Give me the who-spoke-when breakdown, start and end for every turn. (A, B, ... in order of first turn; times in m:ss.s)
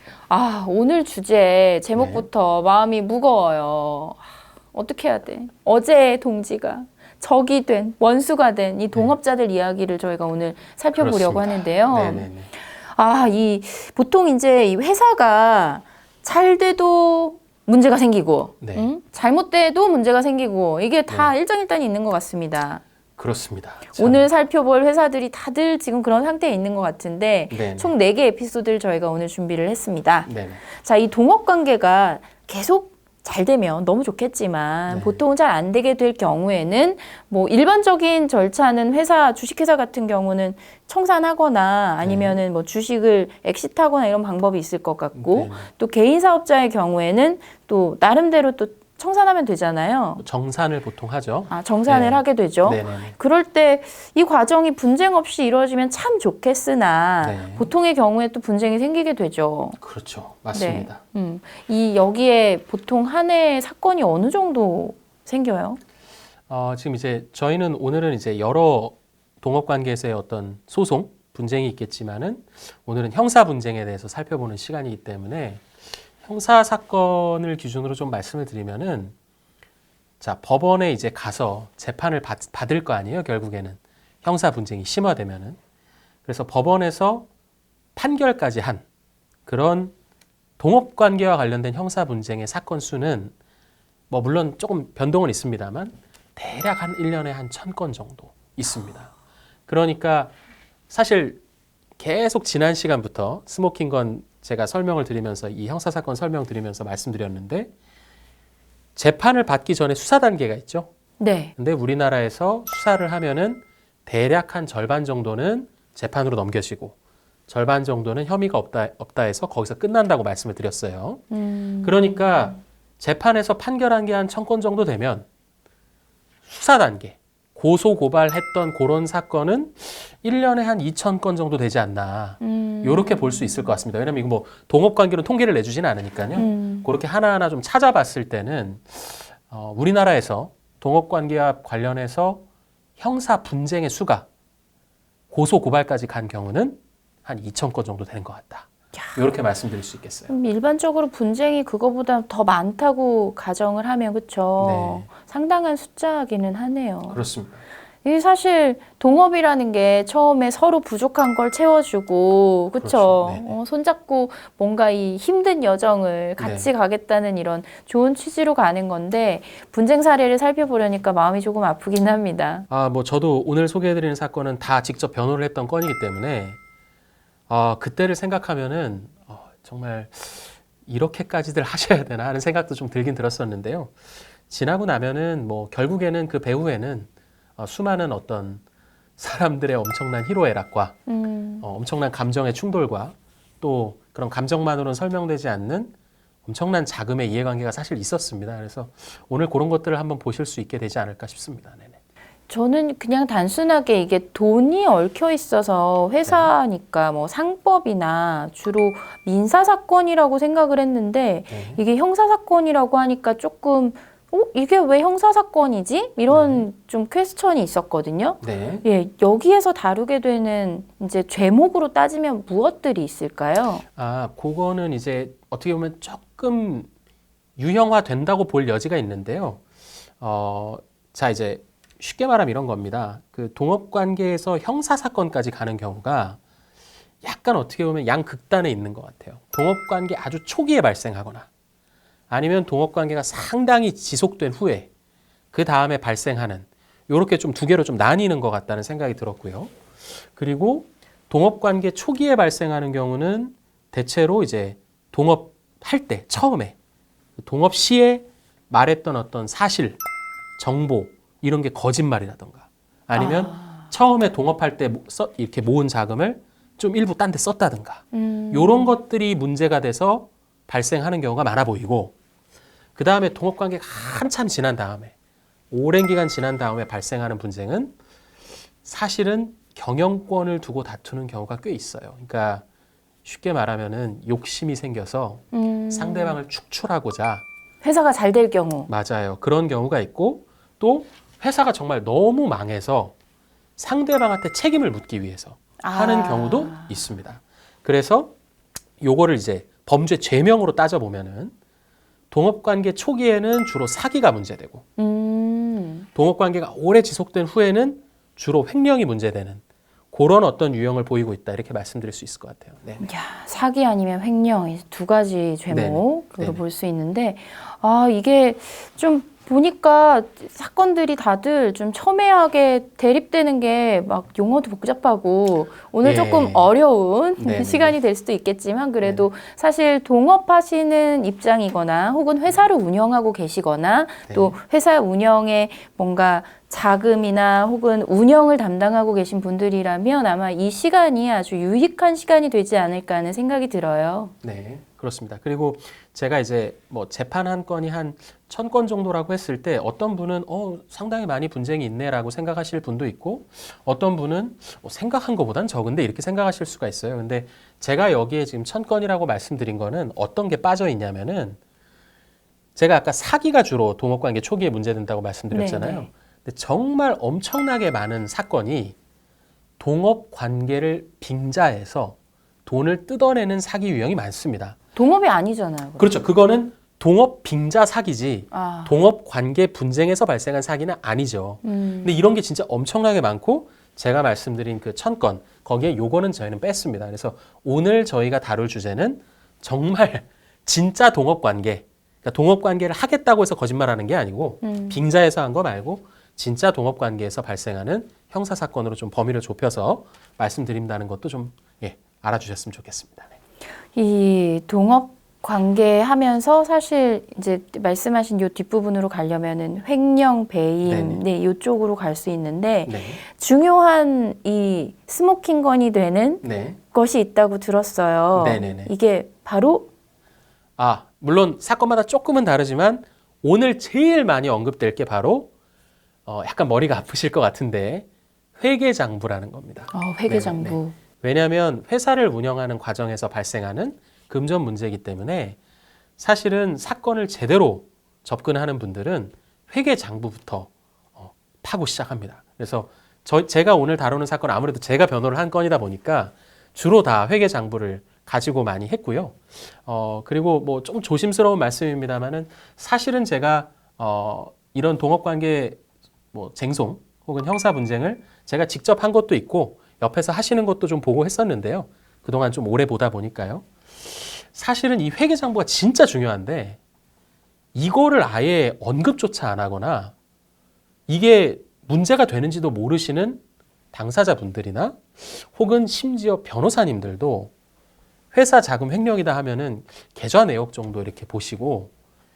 0:00.3-0:12.3 A
0:02.0-0:02.3 B
0:11.0-0:12.5 B
0:12.9-0:22.8 A
0:18.6-0:18.9 B
0:23.2-0:24.3 B
0:23.9-0:50.2 A
0:27.5-0:27.9 B
0:30.2-0:30.6 B
0:34.9-0:35.2 B
0:42.0-0:42.4 B
0:45.1-0:45.7 B
0:50.2-0:53.1 B
0:51.5-0:59.8 A
0:57.2-0:57.7 B
0:59.8-1:01.0 B
1:00.5-1:05.8 A
1:06.5-1:15.7 B
1:16.2-1:19.1 B
1:20.2-1:25.6 B
1:26.2-1:27.3 B
1:28.0-1:28.8 B
1:29.4-1:29.9 B
1:30.6-1:33.3 B
1:34.1-1:39.1 B
1:39.7-1:40.3 B
1:40.9-1:41.4 B
1:42.0-1:47.7 B
1:49.0-1:50.9 B
1:51.2-1:51.5 A
1:51.6-1:57.0 B
1:57.5-2:01.2 B
2:01.3-2:02.5 A
2:01.8-2:05.2 B
2:06.5-2:22.4 B
2:12.4-2:13.7 A
2:16.4-2:16.9 A
2:23.0-2:24.3 B
2:25.3-2:30.3 B
2:30.3-2:37.2 A
2:34.6-2:35.0 B
2:37.1-2:37.6 B
2:38.0-2:52.6 A
2:42.8-2:43.6 B
2:46.4-2:46.7 B
2:52.7-2:56.6 B
2:57.5-3:04.0 B
3:04.5-3:08.6 B
3:09.2-3:11.0 B
3:11.1-3:11.6 A
3:11.6-3:15.9 B
3:16.4-3:22.0 B
3:22.5-3:43.8 A
3:26.2-3:26.5 B
3:31.5-3:31.8 B
3:36.3-3:36.6 B
3:38.4-3:38.8 B
3:44.0-3:46.9 B
3:47.6-3:49.6 B
3:50.2-3:56.4 B
3:57.2-4:01.5 B
4:02.3-4:04.9 B
4:05.5-4:16.8 B
4:17.4-4:20.0 B
4:20.6-4:32.1 B
4:23.1-4:23.9 A
4:28.1-4:28.9 A
4:33.0-4:35.1 B
4:35.7-4:37.9 B
4:38.8-4:42.6 B
4:43.2-4:47.4 B
4:45.5-4:46.4 A
4:47.8-4:48.9 A
4:48.9-4:53.1 B
4:53.8-4:58.3 B
4:55.8-4:57.0 A
4:59.0-5:01.5 B
5:02.3-5:04.8 B
5:05.0-5:06.1 A
5:06.1-5:13.0 B
5:13.0-5:44.3 A
5:15.7-5:16.6 B
5:26.0-5:26.7 B
5:27.4-5:28.0 B
5:29.0-5:29.3 B
5:34.3-5:34.6 B
5:44.4-6:01.6 B
6:02.8-6:09.0 B
6:05.5-6:06.1 A
6:09.8-6:14.8 B
6:14.9-6:16.2 A
6:16.0-6:43.4 B
6:18.5-6:19.0 A
6:21.6-6:22.2 A
6:34.6-6:35.0 A
6:43.9-6:59.9 A
6:50.8-6:51.2 B
6:52.8-6:53.2 B
6:56.4-6:56.8 B
6:58.4-6:58.9 B
7:00.8-7:05.5 B
7:06.2-7:08.0 B
7:08.6-7:15.6 B
7:09.9-7:11.0 A
7:16.2-7:35.8 B
7:36.3-7:46.8 B
7:47.7-7:50.1 B
7:51.1-7:53.4 B
7:53.9-7:57.5 B
7:58.3-8:01.9 B